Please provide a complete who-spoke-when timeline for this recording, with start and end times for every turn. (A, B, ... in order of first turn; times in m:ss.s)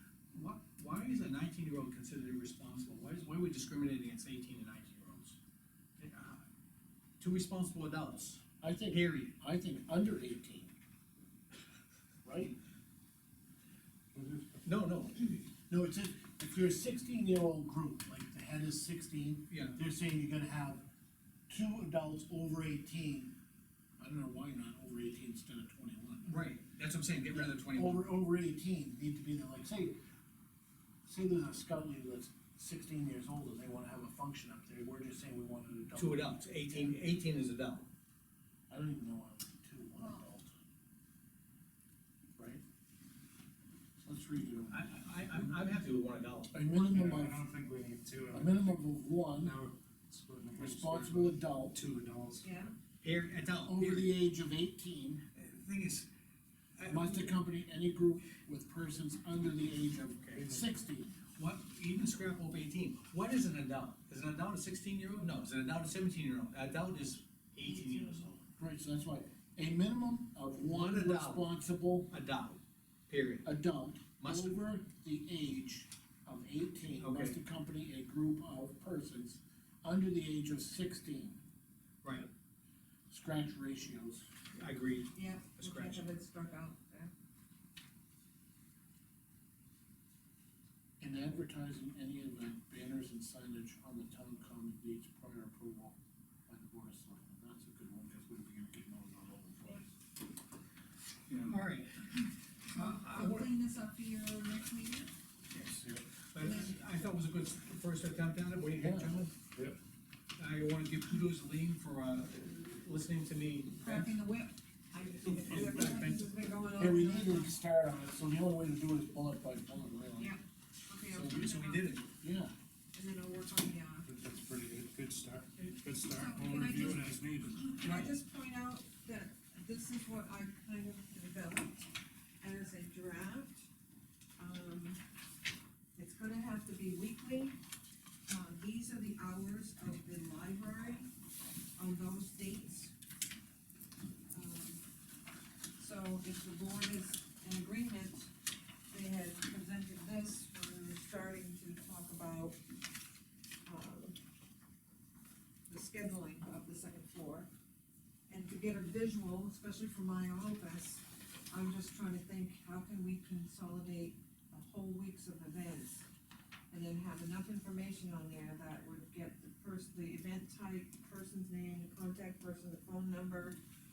0:00.3-0:05.4 A
0:06.0-0:06.4 A
0:07.2-0:09.3 A
0:08.6-0:10.7 B
0:12.2-0:12.6 B
0:14.2-0:14.5 C
0:14.6-0:15.5 A
0:15.7-0:20.8 B
0:19.5-0:19.8 A
0:21.5-0:23.4 B
0:24.0-0:26.5 B
0:26.3-0:28.0 A
0:27.3-0:30.0 B
0:31.0-0:37.0 B
0:36.0-0:37.9 A
0:38.7-0:40.5 B
0:40.0-0:40.2 D
0:42.4-0:42.6 B
0:44.0-0:44.9 B
0:44.7-0:46.5 A
0:46.5-0:47.4 B
0:46.9-0:48.7 C
0:48.3-0:49.6 B
0:49.4-0:52.5 C
0:50.6-0:51.8 B
0:52.4-0:52.7 D
0:53.0-0:54.1 A
0:53.6-0:55.2 B
0:55.3-0:56.1 A
0:56.8-0:57.3 A
0:56.8-1:01.2 B
1:00.2-1:00.6 A
1:01.4-1:08.4 A
1:08.6-1:12.1 B
1:10.7-1:11.5 A
1:12.1-1:13.5 A
1:13.4-1:21.4 B
1:14.2-1:14.6 A
1:17.0-1:17.4 A
1:22.0-1:22.3 A
1:23.1-1:24.3 B
1:24.5-1:26.1 A
1:25.1-1:27.1 D
1:31.0-1:39.9 B
1:41.4-1:42.2 A
1:42.7-1:45.1 D
1:42.7-1:43.5 A
1:45.5-1:49.4 A
1:46.4-1:46.8 D
1:48.7-1:49.2 B
1:50.4-1:54.1 A
1:53.8-1:57.5 D
1:55.2-1:56.2 A
1:55.5-1:56.0 B
1:56.8-2:00.4 B
2:00.2-2:01.9 D
2:01.1-2:02.1 A
2:02.2-2:02.5 B
2:02.9-2:04.1 D
2:04.0-2:07.8 C
2:06.0-2:11.9 D
2:12.4-2:13.7 D
2:14.4-2:15.0 D
2:16.0-2:17.6 D
2:18.3-2:21.1 D
2:21.8-2:22.9 D
2:24.3-2:24.8 D
2:25.8-2:28.3 D
2:28.9-2:32.6 D
2:33.6-2:34.2 D
2:35.7-2:37.5 D
2:38.3-2:46.1 D
2:46.7-2:53.6 D